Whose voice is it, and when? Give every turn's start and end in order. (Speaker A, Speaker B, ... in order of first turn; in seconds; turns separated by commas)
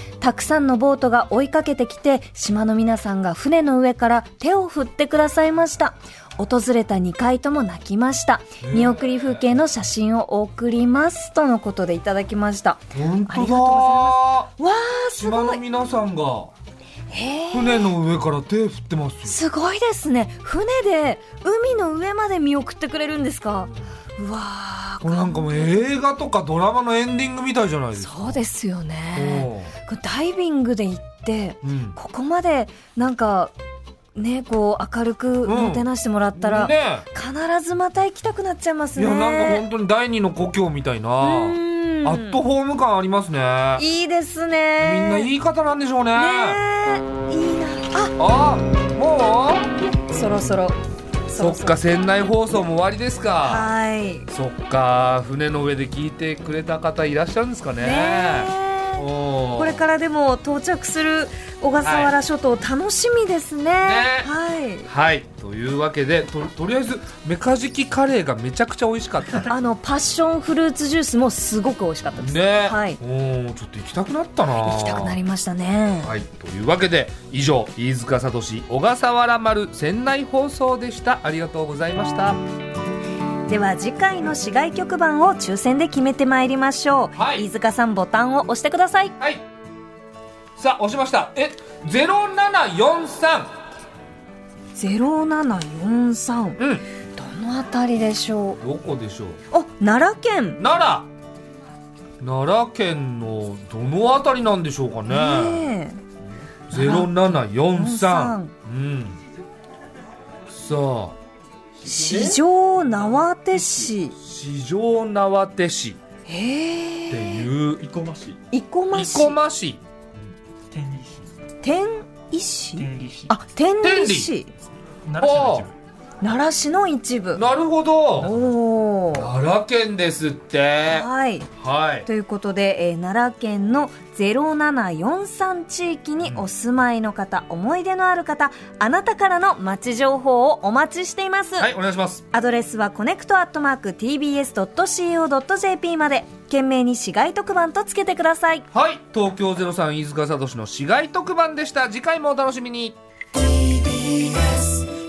Speaker A: 0.2-15.6, Speaker B: 8.6-9.3, Speaker B: 12.9-14.5, Speaker B: 15.2-16.5, Speaker A: 17.1-17.9, Speaker B: 17.5-19.4, Speaker A: 19.2-25.9, Speaker B: 25.0-28.4, Speaker A: 27.9-33.5, Speaker B: 29.1-29.7, Speaker B: 31.6-32.0, Speaker A: 34.1-39.7, Speaker B: 35.5-37.1, Speaker B: 39.0-43.8, Speaker A: 41.2-42.4, Speaker A: 43.8-45.3, Speaker B: 44.8-46.6, Speaker A: 46.1-48.2, Speaker B: 48.2-49.7, Speaker A: 50.0-51.8, Speaker B: 51.4-53.7, Speaker A: 53.4-54.3, Speaker B: 54.3-59.8, Speaker A: 57.8-64.9, Speaker B: 61.8-62.1, Speaker B: 63.8-64.3, Speaker B: 64.9-69.5, Speaker A: 69.5-73.0, Speaker B: 72.2-75.2, Speaker A: 74.6-76.1, Speaker B: 76.0-82.4, Speaker A: 83.5-89.2, Speaker B: 87.2-87.5, Speaker B: 90.6-93.5, Speaker A: 94.8-96.6, Speaker B: 96.6-96.8, Speaker A: 97.2-98.6, Speaker B: 98.6-99.4, Speaker A: 99.5-100.6, Speaker B: 100.6-101.1, Speaker B: 102.2-105.7, Speaker A: 105.1-106.0, Speaker B: 106.7-109.2, Speaker A: 106.7-108.5, Speaker B: 110.5-111.2, Speaker A: 111.8-114.2, Speaker B: 111.9-112.4, Speaker B: 114.2-116.0, Speaker A: 116.3-117.5, Speaker B: 117.1-117.9, Speaker C: 117.8-118.4, Speaker A: 118.5-119.4, Speaker B: 118.9-119.8, Speaker C: 120.7-121.3, Speaker A: 121.6-124.5, Speaker C: 122.8-123.3, Speaker B: 123.8-124.3, Speaker C: 125.0-125.7, Speaker B: 125.2-125.7, Speaker A: 126.2-127.4, Speaker B: 127.3-128.3, Speaker A: 128.2-129.3, Speaker B: 129.1-132.1, Speaker A: 130.9-131.5, Speaker A: 132.1-141.7, Speaker B: 141.6-142.2, Speaker A: 142.3-148.7, Speaker B: 148.7-153.0